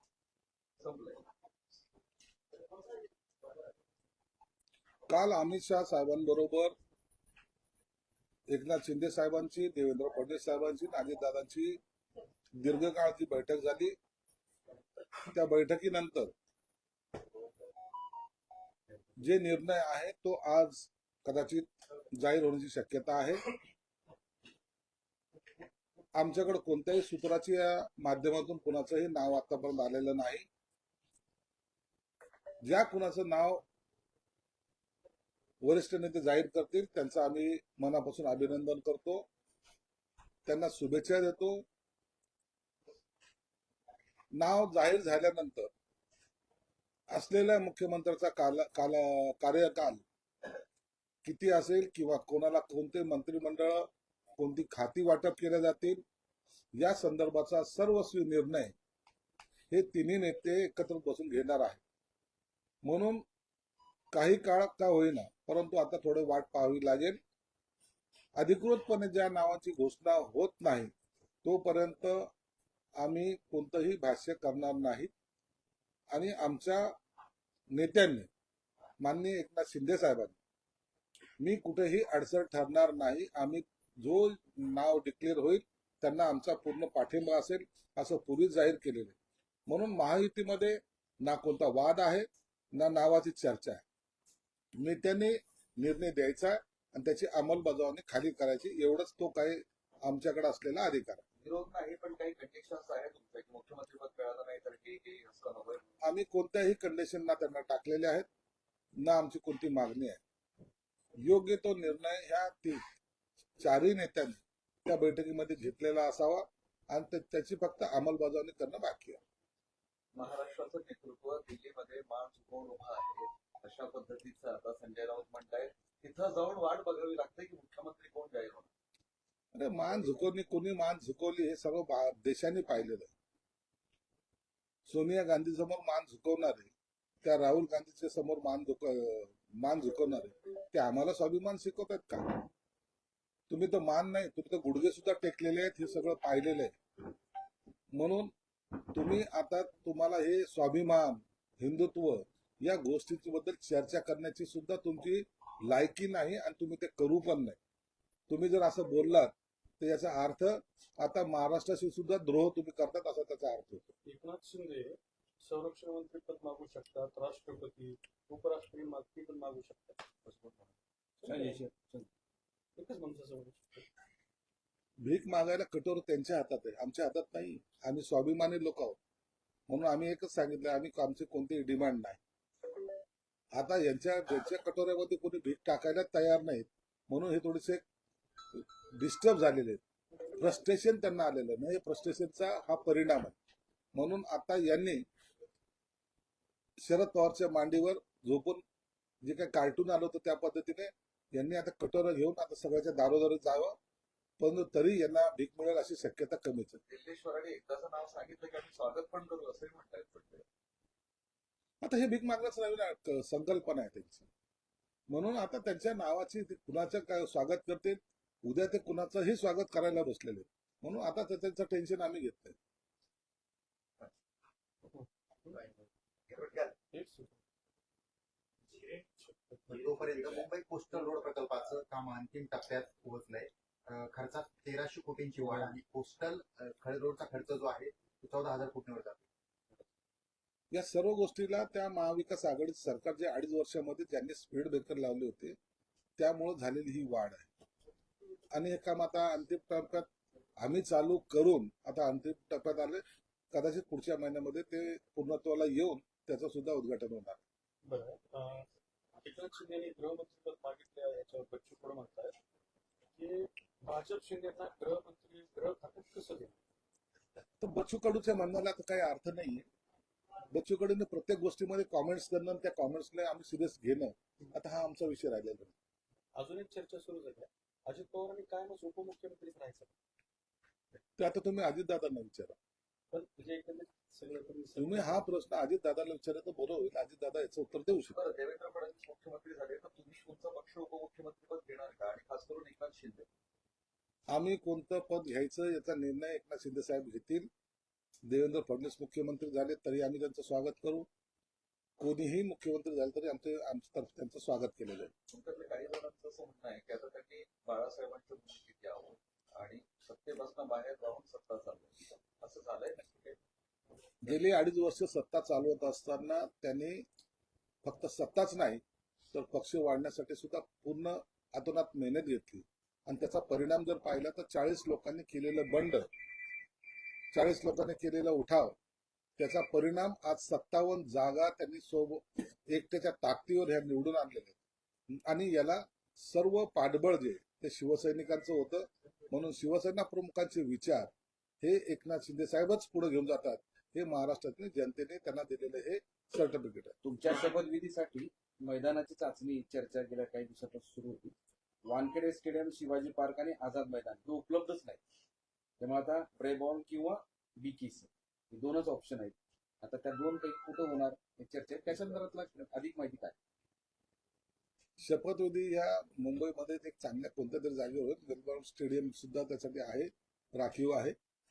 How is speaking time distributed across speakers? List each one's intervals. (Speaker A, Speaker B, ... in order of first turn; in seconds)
Speaker A: 0.8-1.2, 101.4-105.8, 120.1-128.7, 206.9-210.4, 288.1-293.2, 305.3-313.4
Speaker B: 5.1-6.7, 8.5-11.8, 12.6-13.9, 15.2-16.3, 19.2-23.5, 26.1-30.5, 32.6-33.6, 35.6-39.3, 40.5-41.6, 44.3-45.7, 47.1-50.0, 51.2-56.0, 56.8-58.7, 59.7-61.8, 62.8-63.2, 64.1-67.2, 68.4-70.9, 71.4-72.3, 73.0-75.1, 76.1-76.9, 77.7-78.3, 79.0-80.3, 81.4-89.2, 89.7-93.8, 94.8-101.2, 106.0-108.3, 109.0-110.2, 111.2-112.8, 113.6-119.2, 129.5-133.1, 134.9-136.7, 137.2-142.5, 143.5-146.7, 147.9-148.3, 148.9-157.6, 158.3-163.9, 175.0-179.0, 179.7-182.2, 183.5-187.8, 188.5-189.8, 190.3-193.3, 193.9-195.0, 196.8-198.6, 199.2-203.8, 204.4-206.8, 211.8-214.3, 215.1-222.6, 240.7-245.6, 246.2-247.5, 248.5-250.1, 250.6-253.0, 253.5-257.4, 267.6-269.6, 270.5-275.7, 281.2-282.6, 284.8-288.1, 294.3-297.5, 298.3-301.1, 302.0-305.1, 314.2-317.0, 317.8-318.8, 319.3-326.1, 327.3-328.8, 329.4-334.6, 335.1-341.1, 341.6-346.9, 365.0-371.1
Speaker C: 164.0-170.0, 171.2-171.7, 172.8-173.9, 224.9-225.6, 226.9-227.4, 229.2-230.1, 257.8-258.7, 259.2-262.3, 263.1-266.5, 276.4-279.9, 283.1-285.3
Speaker D: 170.2-170.7, 171.2-172.1, 347.0-355.0, 355.8-363.3
Speaker E: 226.3-226.7, 229.7-239.2